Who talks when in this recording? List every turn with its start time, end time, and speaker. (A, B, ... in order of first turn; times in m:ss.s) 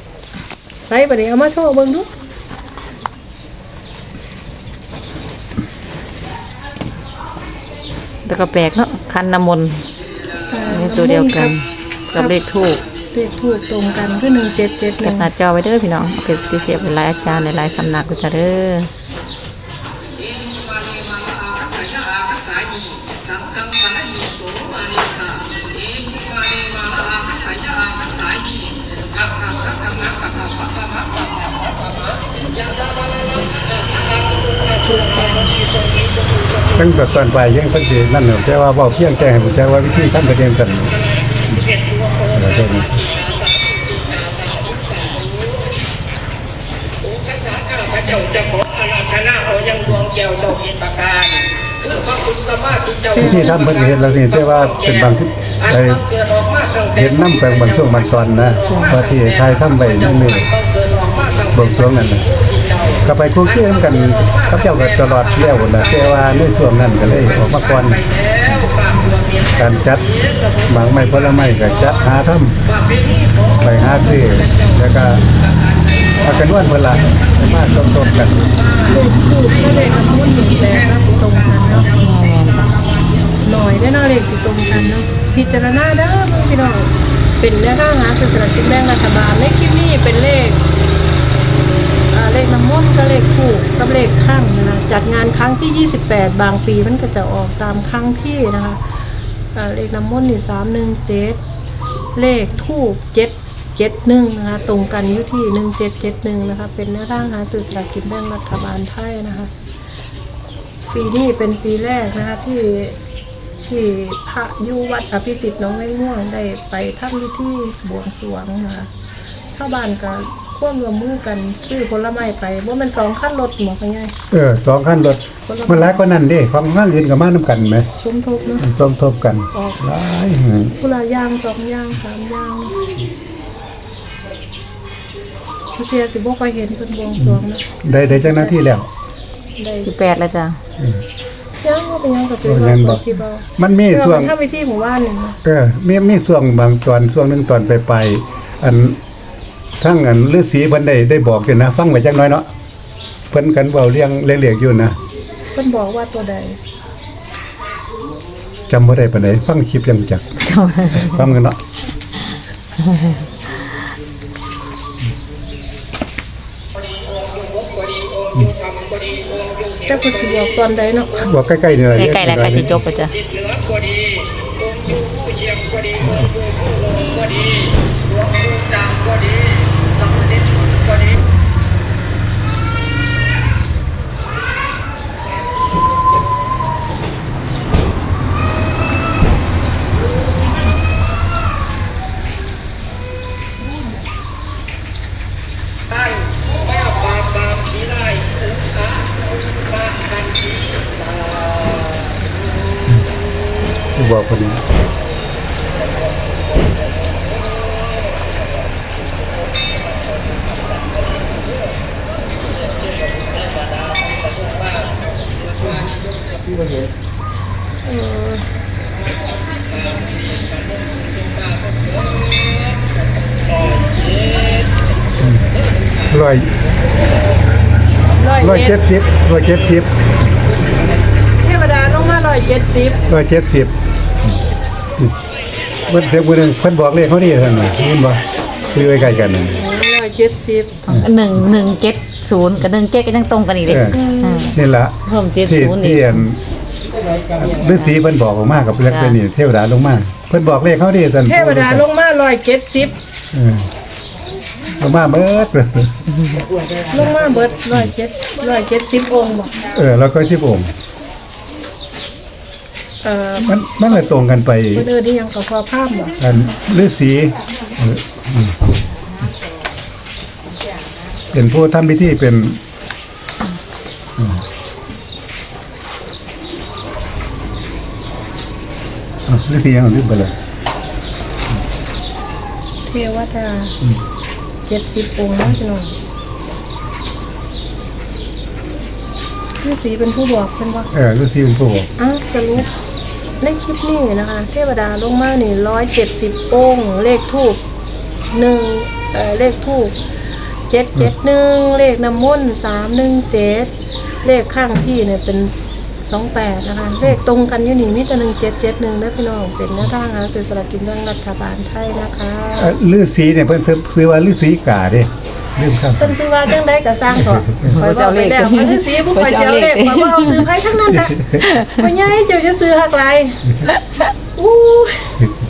0:00.8-0:02.1 A
0:08.2-0:09.9 B
0:10.5-0:11.5 A
0:10.7-0:12.8 B
0:13.1-0:15.3 A
0:15.0-0:18.9 B
0:34.3-0:35.6 C
0:34.8-0:35.5 A
0:36.7-0:41.7 D
0:41.7-0:42.3 C
0:42.3-0:43.0 D
0:43.2-0:43.6 C
0:44.2-0:45.1 C
0:47.1-0:53.1 C
0:53.1-0:53.5 A
0:53.2-0:56.1 D
0:56.3-0:56.9 C
0:56.9-1:00.5 D
1:00.8-1:01.5 C
1:01.5-1:02.3 D
1:03.0-1:08.0 D
1:09.4-1:10.2 D
1:10.7-1:12.6 D
1:13.6-1:15.3 D
1:16.2-1:18.6 D
1:18.8-1:21.9 A
1:21.9-1:22.8 B
1:23.4-1:30.6 A
1:32.1-1:38.8 A
1:39.5-1:41.4 A
1:42.2-1:49.5 A
1:50.9-1:53.0 A
1:53.6-1:58.9 A
1:59.5-2:04.1 A
2:04.3-2:07.9 D
2:05.5-2:06.0 A
2:08.0-2:08.7 A
2:08.6-2:10.7 D
2:10.8-2:12.8 A
2:15.7-2:18.5 A
2:17.2-2:18.9 D
2:19.6-2:19.9 A
2:19.8-2:20.6 B
2:21.6-2:25.4 A
2:22.4-2:23.0 D
2:23.6-2:24.3 D
2:25.4-2:29.0 D
2:29.8-2:32.4 D
2:33.3-2:35.0 D
2:35.5-2:36.6 A
2:38.7-2:40.2 D
2:40.4-2:41.3 B
2:40.9-2:41.6 D
2:42.8-2:43.2 B
2:47.4-2:49.8 C
2:49.8-2:51.3 A
2:51.2-2:52.8 D
2:51.9-2:53.2 B
2:53.4-2:54.2 C
2:54.8-2:55.9 C
2:56.0-2:56.3 D
2:56.8-2:57.6 C
2:58.2-2:59.2 C
3:17.4-3:18.3 C
3:21.2-3:21.8 C
3:24.0-3:24.6 D
3:27.9-3:28.2 C
3:33.4-3:35.0 C
3:35.5-3:36.0 C
3:37.8-3:38.5 A
3:39.8-3:40.2 C
3:41.7-3:42.9 C
3:43.6-3:44.8 C
3:45.2-3:45.5 D
3:46.1-3:46.5 D
3:48.2-3:48.8 A
3:48.4-3:49.9 D
3:51.4-3:53.0 A
3:53.1-3:53.7 D
3:55.9-3:58.2 D
3:58.7-3:59.6 D
3:59.5-4:00.8 A
4:00.9-4:06.2 B
4:03.6-4:06.4 D
4:03.9-4:04.5 A
4:07.4-4:11.8 D
4:07.6-4:07.9 B
4:08.9-4:09.2 B
4:11.2-4:13.0 A
4:13.3-4:13.7 D
4:14.8-4:15.9 D
4:16.9-4:19.6 A
4:19.7-4:20.7 D
4:23.0-4:23.5 A
4:23.4-4:24.9 D
4:24.7-4:26.2 A
4:26.2-4:28.6 D
4:31.3-4:32.6 D
4:34.2-4:34.4 D
4:39.3-4:40.3 D
4:42.8-4:43.8 A
4:44.6-4:45.9 A
4:49.6-4:50.9 A
4:50.9-4:51.9 D
4:52.0-4:52.7 A
4:53.4-4:57.6 A
4:58.3-5:00.0 A
5:00.7-5:03.7 A
5:04.2-5:12.7 A
5:12.6-5:16.2 D
5:16.0-5:23.4 A
5:17.3-5:17.7 D
5:17.6-5:20.4 B
5:20.9-5:21.4 D
5:21.3-5:21.8 B
5:23.6-5:24.0 B
5:24.4-5:25.2 A